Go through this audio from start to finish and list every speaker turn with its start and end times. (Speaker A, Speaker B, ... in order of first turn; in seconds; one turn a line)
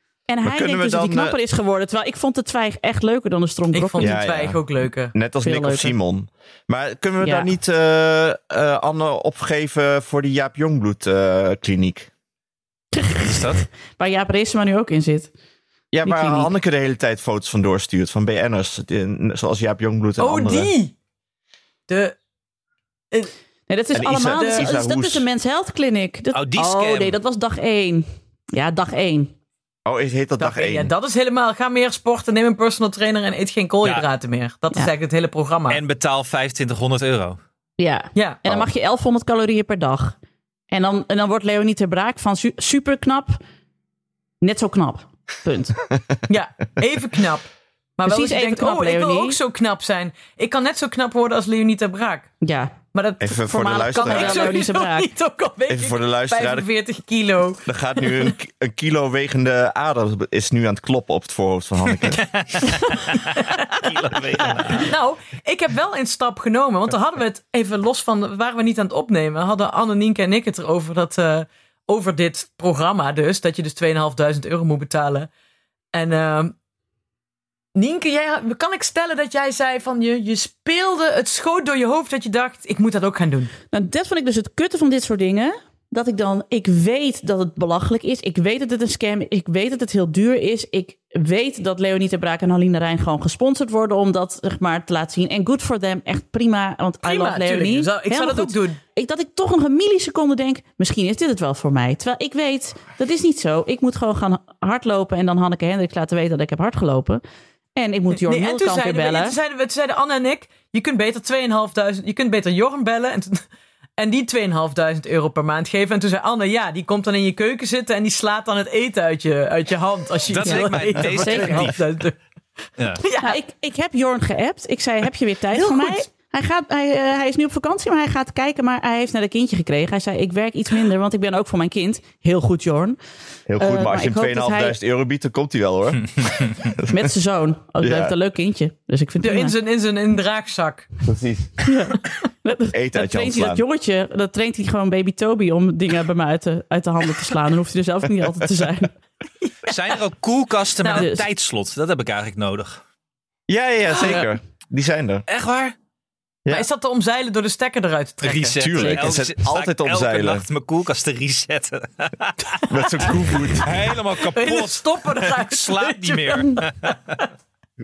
Speaker A: 0.3-4.2
Speaker B: 0.4-1.4
Speaker C: 3.7-5.2
Speaker B: 4.0-4.6
Speaker B: 5.1-12.1
Speaker A: 5.4-6.0
Speaker A: 7.2-7.5
Speaker A: 12.9-15.3
Speaker D: 13.2-13.6
Speaker B: 15.9-20.7
Speaker A: 16.0-16.5
Speaker C: 20.2-20.9
Speaker C: 21.9-22.2
Speaker A: 23.7-29.3
Speaker B: 23.9-25.3
Speaker C: 24.4-24.7
Speaker D: 26.3-27.2
Speaker B: 29.9-30.9
Speaker C: 30.4-35.8
Speaker D: 35.7-37.4
Speaker A: 37.8-40.2
Speaker C: 38.1-38.4
Speaker A: 40.7-43.4
Speaker A: 44.4-45.8
Speaker B: 45.9-46.2
Speaker C: 46.3-52.3
Speaker A: 48.0-49.4
Speaker A: 52.4-52.8
Speaker C: 52.9-58.4
Speaker B: 53.2-54.6
Speaker A: 53.4-55.1
Speaker B: 55.7-56.7
Speaker B: 57.6-62.2
Speaker D: 62.0-64.9
Speaker C: 62.7-63.6
Speaker C: 64.7-75.3
Speaker C: 75.9-76.5
Speaker C: 77.8-83.5
Speaker A: 83.7-107.2
Speaker C: 97.0-98.8
Speaker A: 107.8-109.4
Speaker C: 108.2-122.2
Speaker D: 120.3-121.8
Speaker A: 120.4-121.7
Speaker C: 123.0-123.4
Speaker A: 123.2-133.0
Speaker C: 125.5-126.0
Speaker B: 133.5-136.9
Speaker A: 133.6-134.8
Speaker A: 136.9-139.5
Speaker B: 137.8-138.1
Speaker C: 139.2-141.0
Speaker B: 141.1-141.6
Speaker A: 141.7-148.9
Speaker B: 142.7-143.6
Speaker C: 149.4-149.9
Speaker D: 149.7-152.8
Speaker C: 150.8-151.1
Speaker A: 150.9-151.2
Speaker B: 153.5-155.2
Speaker D: 155.3-155.8
Speaker C: 156.5-159.0
Speaker D: 158.2-167.0
Speaker B: 158.6-160.5
Speaker B: 162.7-163.7
Speaker C: 163.2-167.2